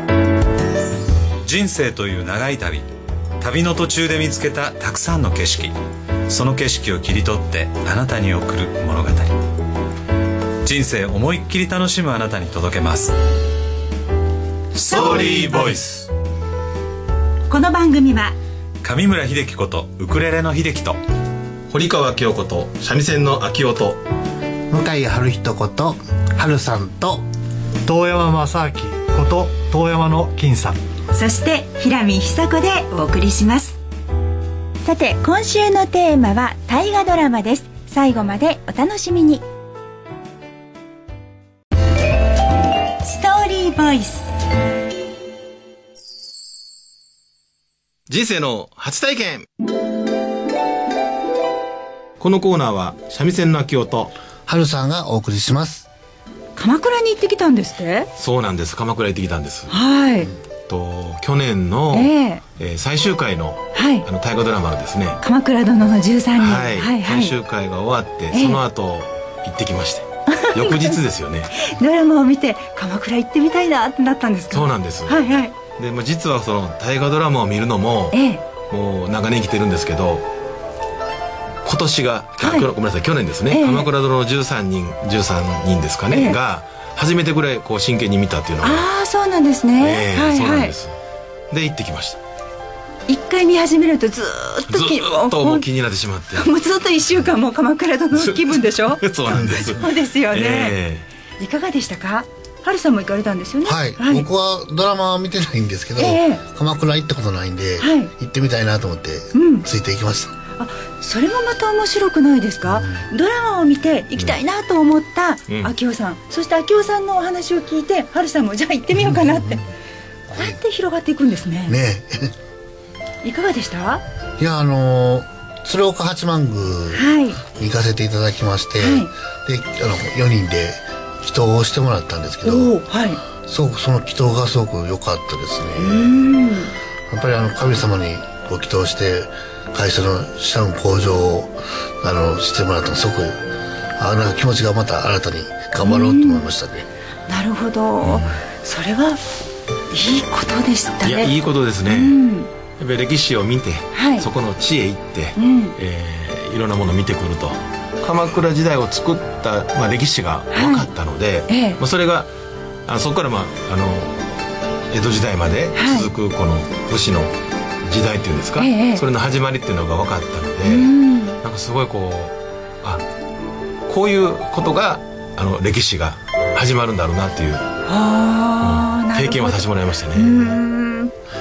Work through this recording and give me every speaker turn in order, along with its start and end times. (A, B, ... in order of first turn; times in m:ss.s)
0:01.4-0:02.9 A
0:03.4-0:05.7 A
0:06.3-0:09.4 A
0:10.6-0:13.1 A
0:14.7-0:16.1 A
0:17.5-0:18.4 B
0:18.8-0:21.0 A
0:21.7-0:24.0 C
0:24.7-0:27.2 D
0:27.8-0:30.8 E
0:31.1-0:33.8 B
0:34.8-0:39.4 B
0:43.0-0:44.3 B
0:48.1-0:49.5 C
0:52.2-0:54.1 C
0:54.5-0:55.9 D
0:56.6-0:58.1 B
0:58.2-0:59.8 C
0:59.7-1:00.3 B
1:00.7-1:05.2 C
1:01.9-1:02.4 B
1:03.7-1:04.1 B
1:05.2-1:07.4 B
1:06.4-1:11.6 C
1:08.3-1:08.6 B
1:10.3-1:11.0 B
1:11.6-1:15.5 B
1:14.5-1:18.2 C
1:18.1-1:18.4 B
1:18.7-1:20.3 C
1:21.6-1:28.9 C
1:22.4-1:22.7 B
1:23.5-1:23.9 B
1:26.1-1:26.4 B
1:28.6-1:30.8 B
1:29.8-1:30.9 C
1:31.5-1:32.2 C
1:33.1-1:35.7 B
1:34.7-1:36.5 C
1:36.3-1:40.8 B
1:38.2-1:41.1 C
1:39.3-1:39.8 D
1:41.4-1:44.3 B
1:43.7-1:50.3 D
1:46.0-1:46.4 B
1:47.8-1:48.1 B
1:49.3-1:49.7 B
1:50.6-1:59.6 B
1:52.7-1:53.0 D
2:00.3-2:00.6 D
2:00.3-2:01.8 B
2:01.7-2:02.3 D
2:03.2-2:04.0 B
2:04.4-2:12.7 D
2:06.9-2:07.4 B
2:08.8-2:09.1 B
2:12.4-2:13.2 B
2:13.5-2:16.2 D
2:15.8-2:16.7 B
2:17.1-2:23.4 D
2:24.0-2:26.9 D
2:25.8-2:26.5 B
2:27.3-2:29.2 B
2:29.9-2:31.3 B
2:31.0-2:32.2 C
2:31.9-2:32.5 B
2:32.8-2:42.3 C
2:33.9-2:34.3 B
2:35.4-2:35.8 B
2:40.5-2:40.9 B
2:41.5-2:41.8 B
2:42.9-2:44.2 C
2:44.9-2:47.3 C
2:45.8-2:46.1 B
2:47.8-2:53.0 C
2:48.6-2:49.0 B
2:50.6-2:51.4 B
2:53.9-2:57.6 C
2:57.8-3:01.1 B
2:58.6-3:00.6 C